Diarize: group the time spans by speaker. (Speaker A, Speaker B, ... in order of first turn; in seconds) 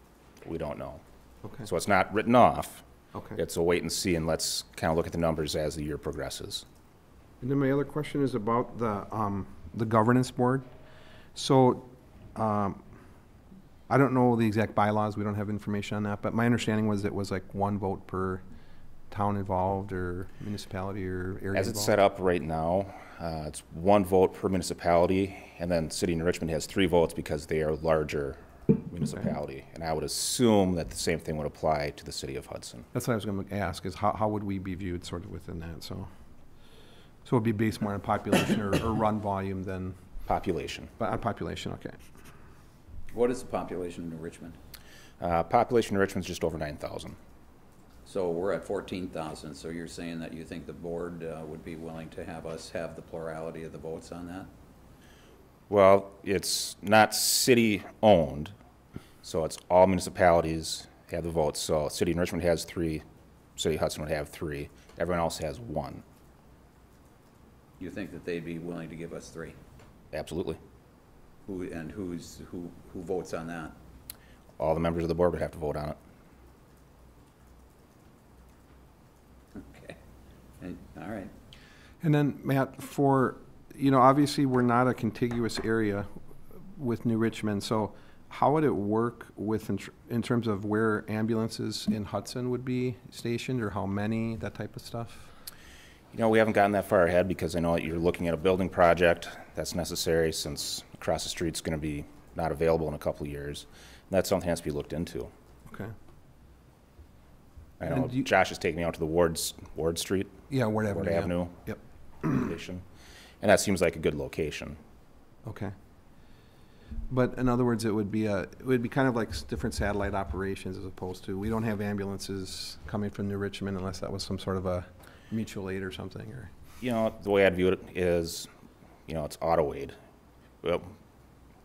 Speaker A: 0.4-1.0, 1.6-2.8, 3.4-6.6, 21.5-32.9, 40.2-40.9, 45.2-47.2, 55.7-58.5, 59.2-63.0, 63.6-66.0, 70.1-70.6, 74.6-76.0, 96.1-105.3, 107.8-110.3, 110.9-111.5, 112.2-112.8, 113.4-114.8, 126.8-128.5, 129.1-129.9, 130.6-130.9
Speaker B: 3.1-3.4, 7.4-10.7, 11.3-12.8, 13.9-18.4, 19.1-21.9, 32.9-36.1, 37.2-40.0, 41.0-42.0, 82.0-86.1, 86.7-95.3, 107.9-108.2, 110.5-111.8, 115.4-115.7, 117.1-126.5
Speaker C: 43.1-44.5, 48.0-54.5, 67.8-69.6, 71.5-73.8, 79.5-80.0, 80.6-81.3